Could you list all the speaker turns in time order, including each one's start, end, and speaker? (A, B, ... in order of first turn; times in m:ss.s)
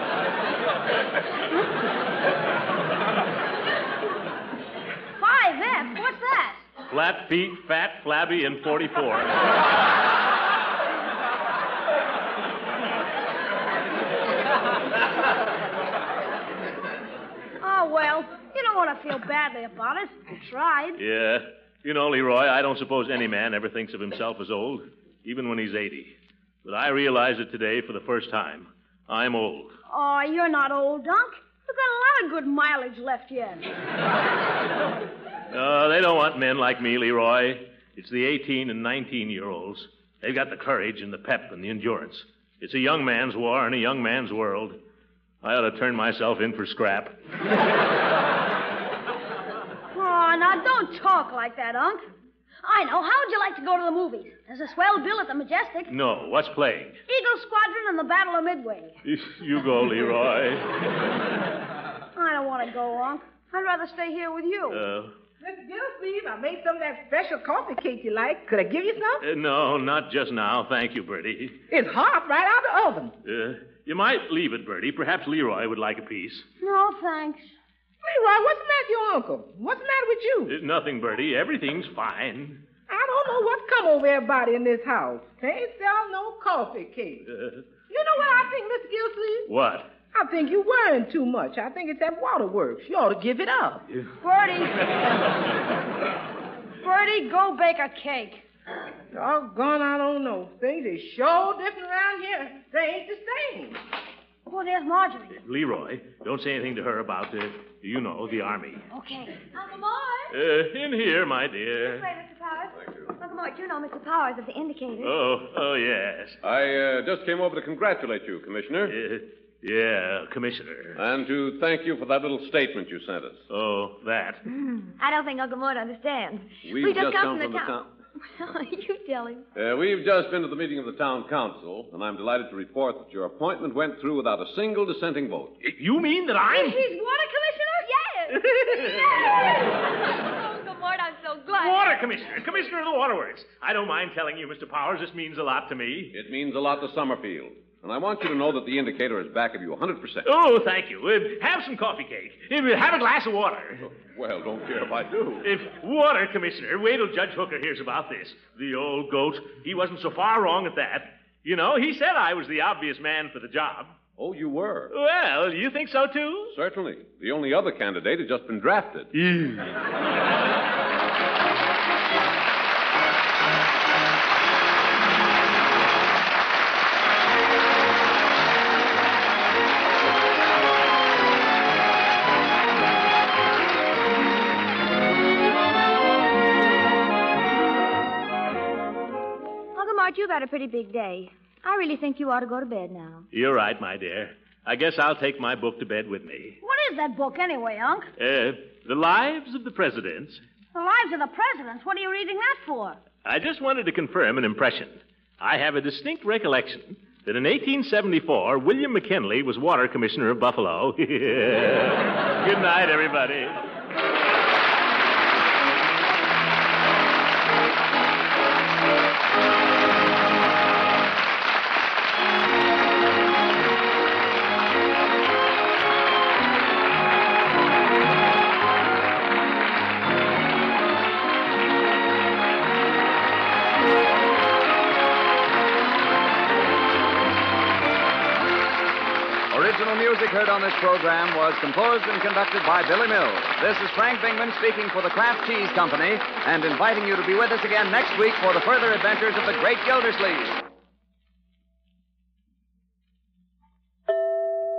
0:05.2-0:06.6 A
0:06.9-0:09.4 B
0:17.6-0:21.0 A
0:21.0-0:29.7 B
0:29.9-0:33.7 A
0:35.5-0:44.8 B
0:45.4-0:47.2 B
0:49.9-0:52.0 A
0:52.6-0:55.9 A
0:55.9-0:57.0 B
0:57.1-0:59.0 A
0:59.0-1:00.8 B
1:02.1-1:04.8 A
1:04.7-1:05.1 B
1:05.4-1:09.2 C
1:09.2-1:11.6 B
1:11.7-1:13.1 C
1:13.2-1:16.4 B
1:16.6-1:17.5 A
1:18.0-1:20.5 C
1:20.5-1:22.6 B
1:22.9-1:27.2 C
1:27.3-1:27.6 B
1:27.9-1:29.5 C
1:29.5-1:29.9 B
1:30.1-1:33.8 C
1:34.2-1:34.8 A
1:36.8-1:38.4 A
1:39.1-1:43.8 C
1:44.5-1:45.4 A
1:45.4-1:48.8 B
1:48.9-1:49.4 A
1:49.4-1:50.3 D
1:50.3-1:52.1 B
1:51.8-1:55.1 D
1:52.8-1:53.1 E
1:55.0-1:56.4 B
1:56.4-1:59.0 E
1:58.9-2:01.0 B
2:01.0-2:03.4 E
2:03.5-2:04.4 B
2:04.6-2:07.8 D
2:06.6-2:07.9 E
2:08.4-2:09.4 D
2:09.6-2:15.5 E
2:15.6-2:16.8 B
2:16.5-2:21.9 D
2:17.5-2:17.7 A
2:18.3-2:19.6 B
2:21.5-2:26.1 B
2:26.1-2:30.3 E
2:30.2-2:33.8 B
2:33.8-2:35.5 E
2:35.4-2:44.0 B
2:44.2-2:44.9 E
2:44.9-2:46.6 B
2:46.5-2:49.1 E
2:49.2-2:49.7 B
3:09.8-3:13.3 D
3:13.3-3:16.6 B
3:16.6-3:18.1 A
3:18.2-3:20.4 B
3:20.7-3:23.0 A
3:23.2-3:33.6 B
3:59.5-4:10.6 F